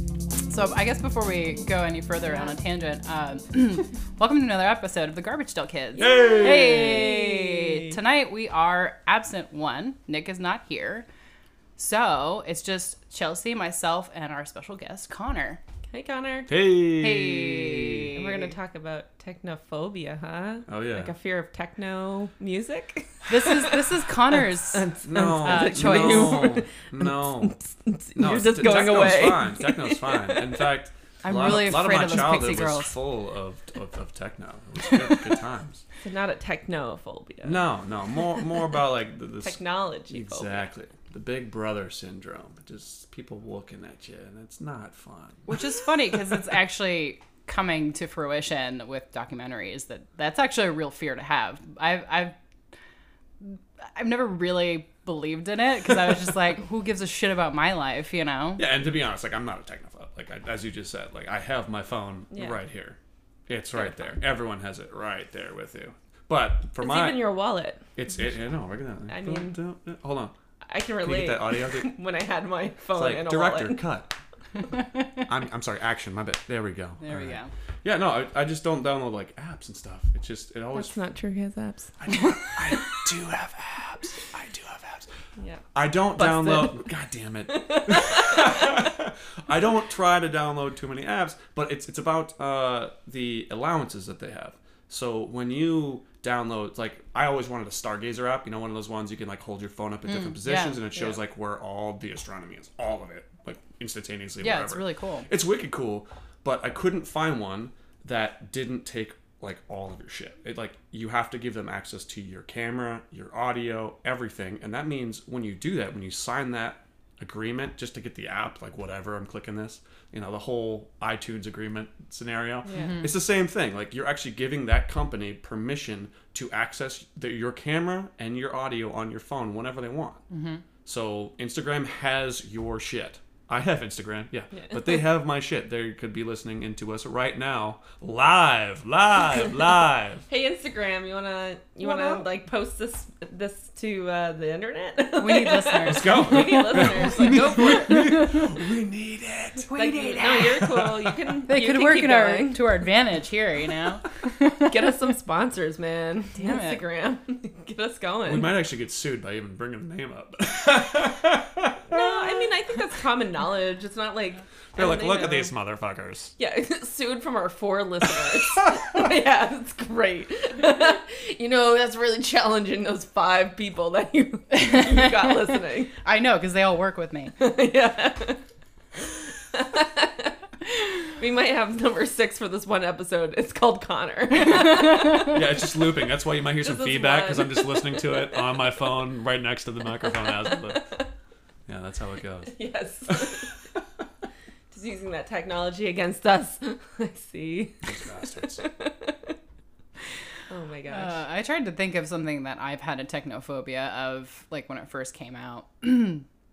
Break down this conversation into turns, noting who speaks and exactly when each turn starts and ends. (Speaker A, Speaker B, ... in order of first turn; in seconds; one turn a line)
Speaker A: 0.5-11.1
Speaker B: 2.2-2.5
Speaker C: 6.0-7.1
Speaker B: 6.0-7.9
Speaker A: 11.8-15.6
Speaker B: 15.9-16.5
Speaker C: 16.5-18.1
Speaker A: 17.0-18.5
Speaker B: 18.1-30.7
Speaker C: 20.7-21.1
Speaker A: 23.3-26.6
Speaker C: 25.0-27.6
Speaker C: 28.1-35.8
Speaker A: 31.2-32.9
Speaker B: 36.0-37.6
Speaker C: 37.4-39.6
Speaker B: 39.4-40.6
Speaker C: 40.1-46.1
Speaker A: 45.5-52.3
Speaker A: 53.4-58.6
Speaker C: 58.6-67.2
Speaker B: 62.3-62.6
Speaker B: 66.8-67.8
Speaker C: 68.0-70.3
Speaker B: 69.1-69.5
Speaker B: 70.7-73.8
Speaker C: 71.0-71.9
Speaker C: 72.9-74.2
Speaker C: 75.2-81.0
Speaker A: 77.0-77.5
Speaker B: 80.7-81.9
Speaker C: 82.0-85.1
Speaker B: 85.4-85.6
Speaker C: 85.7-130.2
Speaker B: 86.1-86.8
Speaker B: 87.5-88.8
Speaker A: 100.1-101.2
Speaker A: 104.4-105.2
Speaker B: 122.6-123.0
Speaker A: 122.7-123.1
Speaker A: 130.3-130.6
Speaker C: 130.8-140.2
Speaker B: 134.5-135.0
Speaker B: 140.3-148.2
Speaker C: 141.8-142.3
Speaker A: 145.2-148.5
Speaker C: 145.8-149.7
Speaker A: 149.7-150.6
Speaker B: 149.7-152.9
Speaker C: 150.2-151.2
Speaker A: 151.5-154.9
Speaker B: 154.6-158.5
Speaker A: 156.4-156.8
Speaker C: 158.2-162.3
Speaker B: 161.9-165.5
Speaker C: 164.7-166.3
Speaker B: 166.4-175.9
Speaker A: 174.5-175.2
Speaker A: 176.0-177.3
Speaker B: 177.4-178.4
Speaker B: 179.0-180.3
Speaker B: 181.0-185.4
Speaker C: 185.2-190.9
Speaker B: 186.6-188.4
Speaker B: 190.1-191.1
Speaker C: 191.7-192.5
Speaker B: 192.5-193.5
Speaker C: 193.1-193.8
Speaker B: 194.7-199.4
Speaker C: 197.8-198.6
Speaker B: 200.5-201.2
Speaker A: 200.9-206.2